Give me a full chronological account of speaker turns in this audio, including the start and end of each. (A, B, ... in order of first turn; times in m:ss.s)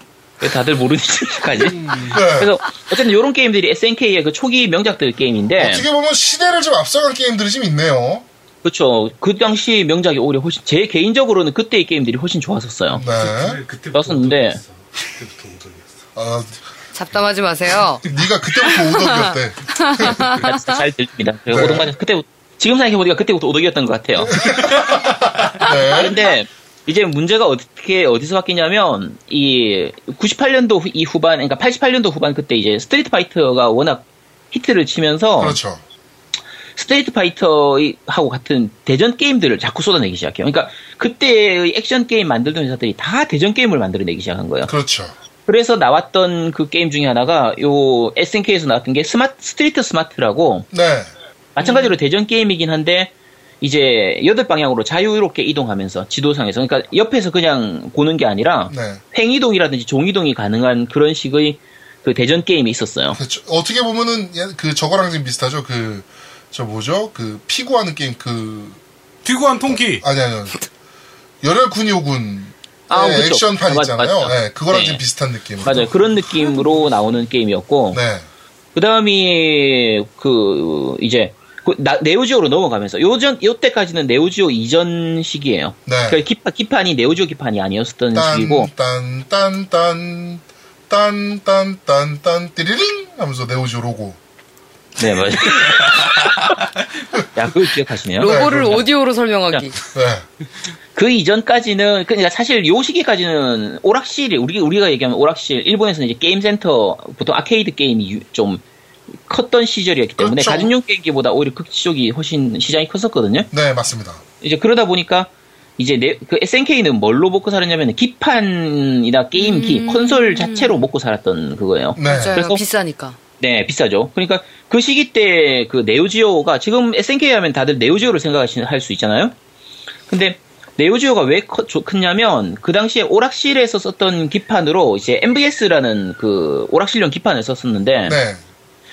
0:00.4-0:05.8 A
0:01.7-0:02.2 B
0:02.1-0:02.5 C
0:05.6-0:08.2 C
0:08.6-0:13.0 A
0:12.9-0:13.6 C
0:13.0-0:15.9 B
0:13.9-0:14.6 A
0:16.2-0:16.6 C
0:16.9-0:18.0 D
0:18.0-0:20.2 C
0:18.6-0:20.8 D
0:20.1-0:24.9 A
0:21.5-0:21.9 C
0:24.2-0:26.3 C
0:25.6-0:35.6 A
0:35.4-0:35.8 C
0:36.8-0:44.7 A
0:44.6-0:45.1 C
0:45.4-0:50.7 A
0:50.7-0:51.1 C
0:51.5-1:03.2 A
0:51.6-0:51.9 D
0:58.7-0:59.0 C
1:03.1-1:08.8 C
1:09.2-1:10.0 B
1:09.7-1:10.7 C
1:11.4-1:15.9 C
1:12.9-1:15.0 A
1:15.6-1:18.0 A
1:17.9-1:18.2 C
1:18.7-1:28.7 A
1:25.8-1:26.2 C
1:28.1-1:34.2 C
1:35.0-1:36.5 A
1:37.3-1:38.8 A
1:38.2-1:39.8 D
1:38.2-1:38.8 C
1:39.9-1:40.2 C
1:40.9-1:48.6 A
1:49.2-1:53.5 A
1:50.2-1:50.7 C
1:53.5-1:54.2 C
1:54.4-2:02.6 A
1:59.4-2:00.7 D
2:02.0-2:02.4 C
2:02.0-2:03.2 D
2:03.4-2:09.3 A
2:10.1-2:18.2 A
2:18.0-2:18.4 C